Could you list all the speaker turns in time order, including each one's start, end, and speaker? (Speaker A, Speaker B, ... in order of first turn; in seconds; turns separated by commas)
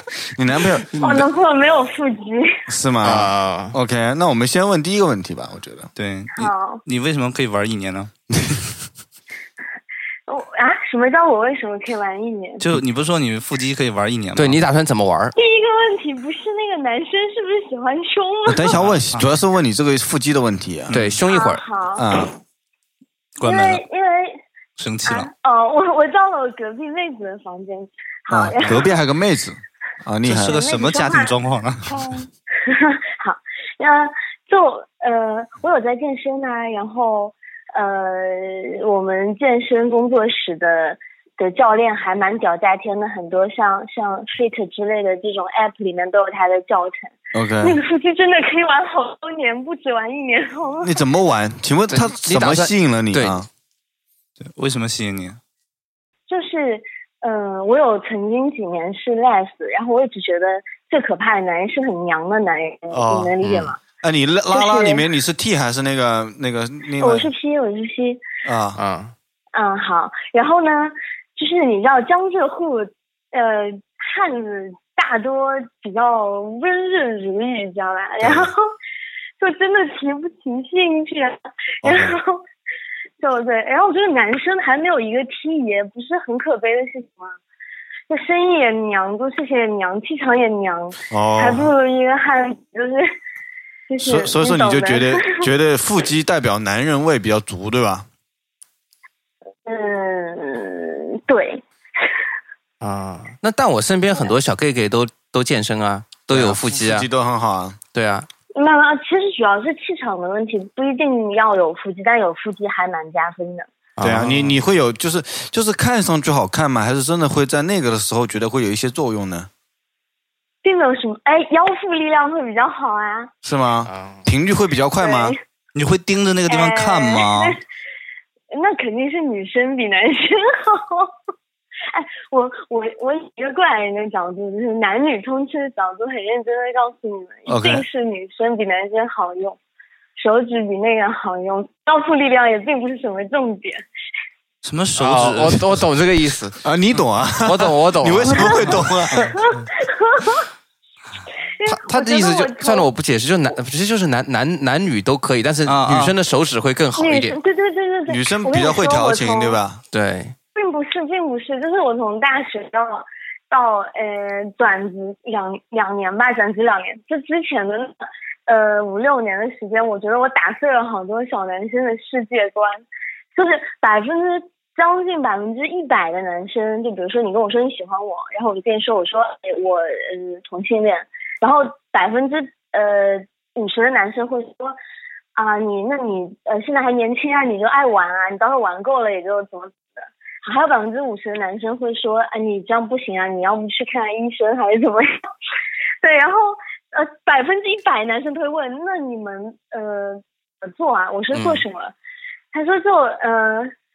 Speaker A: 0.4-1.1, Speaker B: 1.0-2.6, Speaker A: 2.7-5.9, Speaker C: 3.0-3.8, Speaker D: 5.9-8.1, Speaker B: 6.4-6.8, Speaker B: 10.3-12.7, Speaker D: 12.6-14.6, Speaker C: 14.3-15.3, Speaker B: 15.3-18.8, Speaker A: 18.5-20.9, Speaker D: 18.7-19.3, Speaker D: 20.9-21.2, Speaker C: 20.9-21.6, Speaker B: 21.3-22.1, Speaker A: 22.0-22.3, Speaker D: 23.4-23.8, Speaker B: 23.4-24.4, Speaker D: 24.8-25.3, Speaker B: 25.1-28.9, Speaker A: 28.3-30.6, Speaker D: 30.2-31.9, Speaker B: 30.5-31.3, Speaker B: 31.8-51.0, Speaker A: 47.3-47.7, Speaker A: 50.8-53.5, Speaker C: 51.9-53.4, Speaker D: 54.4-55.4, Speaker B: 56.3-63.8, Speaker A: 62.9-63.3, Speaker C: 63.4-63.7, Speaker A: 64.0-67.3, Speaker B: 64.5-65.0, Speaker B: 67.0-68.2, Speaker A: 68.4-68.8, Speaker C: 68.7-69.1, Speaker B: 69.5-78.6, Speaker B: 79.4-82.4, Speaker A: 81.8-82.1, Speaker B: 83.2-87.4, Speaker B: 88.1-93.1, Speaker A: 91.1-91.7, Speaker B: 93.9-95.5, Speaker A: 94.0-98.0, Speaker B: 99.7-101.6, Speaker C: 102.8-107.1, Speaker A: 106.3-107.8, Speaker C: 107.9-108.3, Speaker B: 108.5-113.7, Speaker C: 114.0-114.6, Speaker A: 114.0-119.5, Speaker B: 120.6-123.3, Speaker A: 123.4-125.3, Speaker C: 123.8-124.2, Speaker B: 125.0-125.4, Speaker D: 125.7-127.6, Speaker B: 126.5-127.6, Speaker B: 128.5-131.1, Speaker B: 131.9-139.6, Speaker A: 137.5-137.8, Speaker B: 140.2-143.8, Speaker D: 144.6-145.8, Speaker C: 145.0-146.6, Speaker A: 146.6-149.3, Speaker C: 147.4-148.8, Speaker B: 148.3-150.4, Speaker B: 151.6-152.9, Speaker C: 151.7-157.4, Speaker D: 155.6-156.1, Speaker B: 156.9-159.6, Speaker A: 158.1-159.8, Speaker C: 159.9-160.3, Speaker B: 160.5-184.8, Speaker B: 185.3-195.2, Speaker B: 196.0-201.9, Speaker C: 201.3-201.6, Speaker B: 202.5-203.7